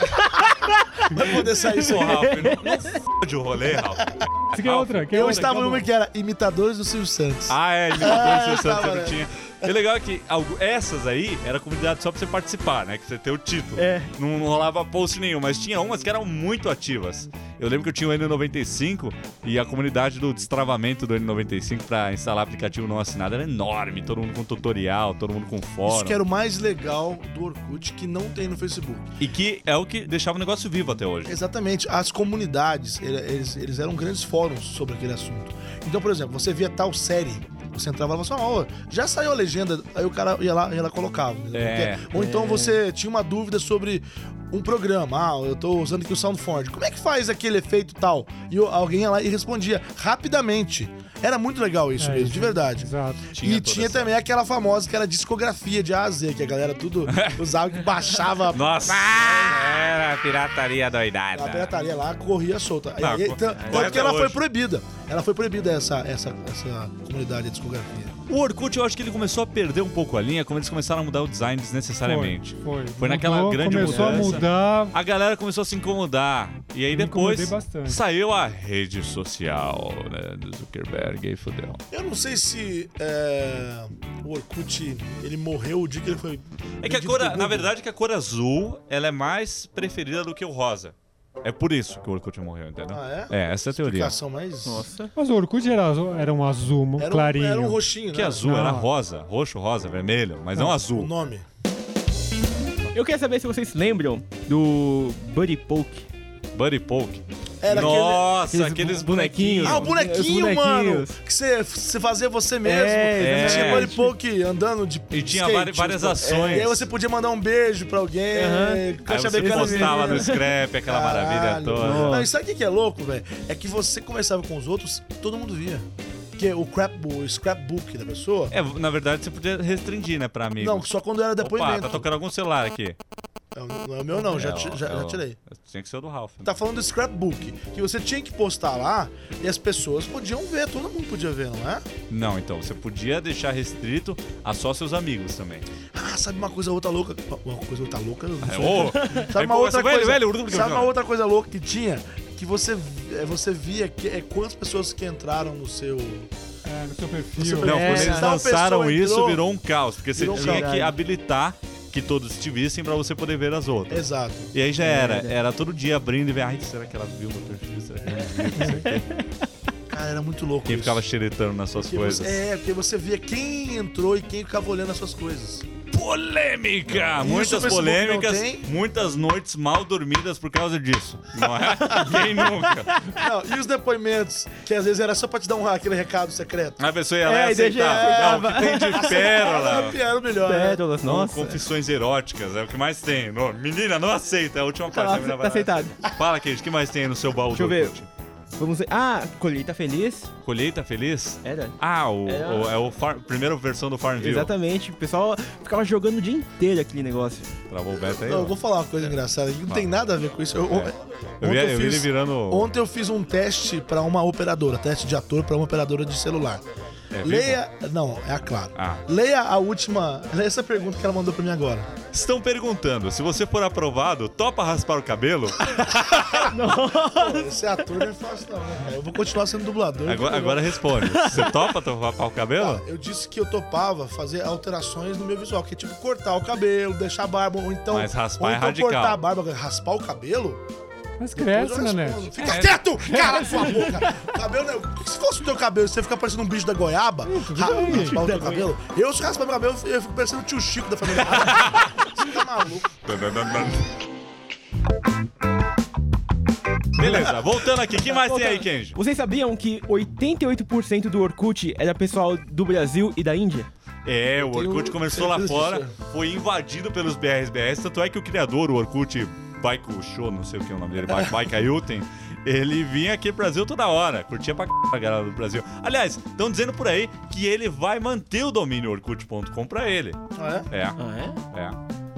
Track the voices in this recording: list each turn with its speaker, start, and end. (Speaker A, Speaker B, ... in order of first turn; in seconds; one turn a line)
Speaker A: 0.5-1.1
Speaker B: 1.1-2.2
Speaker C: 1.7-5.5
Speaker A: 2.0-2.9
Speaker D: 4.5-5.9
Speaker B: 5.1-9.7
Speaker C: 7.5-26.2
Speaker A: 13.8-14.1
Speaker B: 25.9-29.1
Speaker C: 29.2-31.4
Speaker B: 31.2-59.9
Speaker C: 41.5-42.1
Speaker A: 42.1-42.8
Speaker D: 52.0-53.4
Speaker C: 53.3-54.1
Speaker C: 57.1-57.4
Speaker C: 58.5-61.7
Speaker B: 61.3-68.2
Speaker C: 63.0-64.4
Speaker A: 63.5-64.0
Speaker C: 68.3-81.8
Speaker D: 72.0-75.0
Speaker D: 76.9-78.0
Speaker B: 81.9-87.7
Speaker C: 86.8-94.1
Speaker B: 92.9-94.8
Speaker A: 94.6-95.1
Speaker D: 95.1-98.9
Speaker B: 97.0-98.4
Speaker C: 98.1-101.1
Speaker B: 100.9-101.4
Speaker A: 102.9-106.1
Speaker C: 106.5-110.0
Speaker B: 107.6-108.4
Speaker A: 108.5-111.2
Speaker B: 109.6-128.6
Speaker A: 112.6-114.1
Speaker C: 113.2-113.9
Speaker C: 115.1-116.9
Speaker A: 116.2-116.8
Speaker A: 118.3-120.5
Speaker C: 119.0-122.2
Speaker A: 121.8-122.3
Speaker C: 128.5-132.9
Speaker B: 130.6-132.1
Speaker B: 133.5-135.4
Speaker C: 134.2-136.5
Speaker B: 136.4-141.8
Speaker C: 142.1-145.7
Speaker B: 145.9-156.3
Speaker C: 148.4-150.9
Speaker A: 148.7-149.3
Speaker D: 156.7-157.8
Speaker B: 157.3-159.5
Speaker A: 157.6-158.4
Speaker C: 157.6-169.0
Speaker B: 160.1-160.7
Speaker A: 160.3-161.0
Speaker B: 163.9-164.5
Speaker A: 164.8-165.4
Speaker B: 167.9-168.3
Speaker A: 168.6-169.2
Speaker B: 169.9-171.1
Speaker C: 170.6-172.4
Speaker B: 171.8-175.7
Speaker C: 175.9-183.0
Speaker B: 177.2-178.7
Speaker A: 181.6-183.1
Speaker B: 181.8-182.2
Speaker B: 183.1-186.8
Speaker C: 186.8-190.0
Speaker A: 187.2-191.6
Speaker B: 187.9-190.9
Speaker C: 191.0-198.1
Speaker A: 194.9-195.9
Speaker A: 197.5-198.0
Speaker A: 198.6-200.3
Speaker C: 200.4-204.5
Speaker A: 201.4-202.8
Speaker A: 204.2-207.5
Speaker C: 207.7-208.6
Speaker B: 208.2-216.6
Speaker C: 209.7-209.9
Speaker C: 210.7-212.7
Speaker C: 217.1-217.6
Speaker B: 217.2-221.9
Speaker C: 218.7-219.0
Speaker C: 222.1-226.5
Speaker A: 226.4-227.9
Speaker B: 227.0-230.8
Speaker C: 230.1-232.8
Speaker A: 231.0-231.6
Speaker B: 232.5-240.6
Speaker C: 237.9-239.2
Speaker D: 241.2-244.0
Speaker B: 241.3-252.9
Speaker C: 242.4-242.9
Speaker D: 247.2-248.2
Speaker A: 247.6-248.7
Speaker C: 251.1-251.9
Speaker C: 253.0-253.9
Speaker C: 256.9-259.0
Speaker B: 257.0-257.4
Speaker A: 258.0-263.7
Speaker C: 264.0-280.2
Speaker B: 264.4-265.9
Speaker B: 280.3-280.7
Speaker C: 280.7-281.0
Speaker A: 281.0-281.4
Speaker C: 281.5-281.8